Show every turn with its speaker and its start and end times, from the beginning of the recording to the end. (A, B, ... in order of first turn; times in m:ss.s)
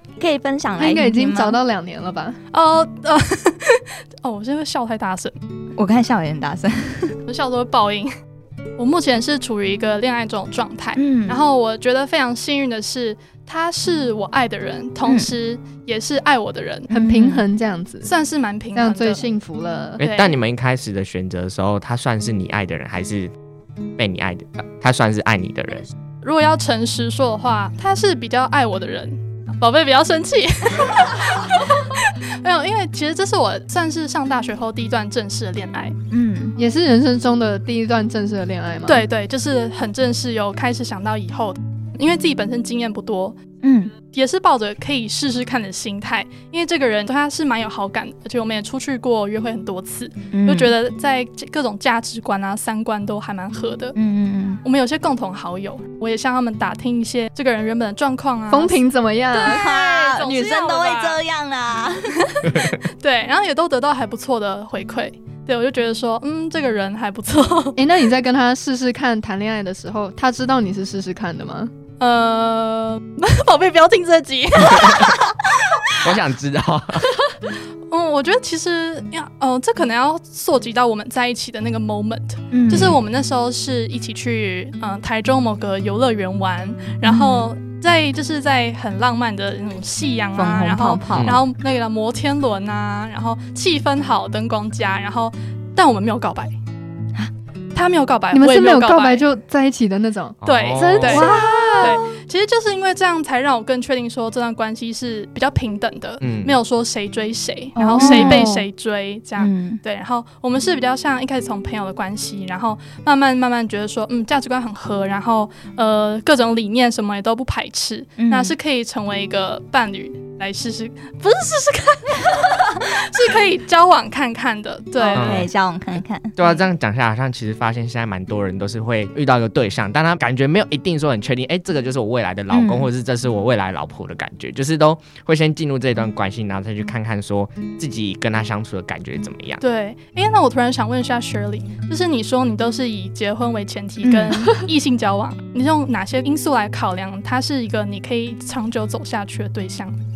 0:00.2-0:01.6 A
0:00.8-0:02.4 B
0:02.5-0:05.4 C
0:05.8-0:07.2 A
0:07.3-0:08.1 C
0:08.8-0:16.9 C
0:11.0-0:11.4 A
0:15.0-0:15.3 A
0:16.9-0:18.1 B
0:16.9-0:17.4 A
0:18.0-0:19.3 C
0:18.7-0:20.0 B
0:20.0-0:20.4 C
0:20.0-0:23.3 D
0:24.0-0:25.9 D
0:26.2-0:36.0 C
0:36.1-0:36.6 A
0:36.6-0:39.0 B
0:38.8-0:43.4 C
0:43.6-0:43.9 A
0:44.1-0:54.0 C
0:50.3-0:50.7 A
0:53.9-0:54.6 A
0:54.6-0:58.8 C
0:58.5-0:59.7 B
0:59.3-1:02.4 A
0:59.6-1:01.2 C
1:02.2-1:07.8 C
1:07.8-1:11.7 B
1:12.0-1:15.9 C
1:14.7-1:15.1 D
1:15.9-1:17.1 D
1:17.9-1:36.5 C
1:22.5-1:23.0 A
1:27.0-1:27.5 A
1:30.3-1:31.4 A
1:31.1-1:31.4 D
1:37.7-1:39.2 C
1:38.3-1:42.0 B
1:40.4-1:41.3 D
1:40.4-2:05.5 C
1:41.0-1:42.1 A
1:46.2-1:46.5 D
1:47.8-1:48.6 B
1:48.0-1:48.5 A
1:49.4-1:49.8 A
1:58.2-1:58.6 A
2:05.0-2:06.4 A
2:05.1-2:05.5 D
2:06.4-2:19.6 D
2:12.5-2:12.9 A
2:19.6-2:30.0 C
2:24.0-2:24.6 A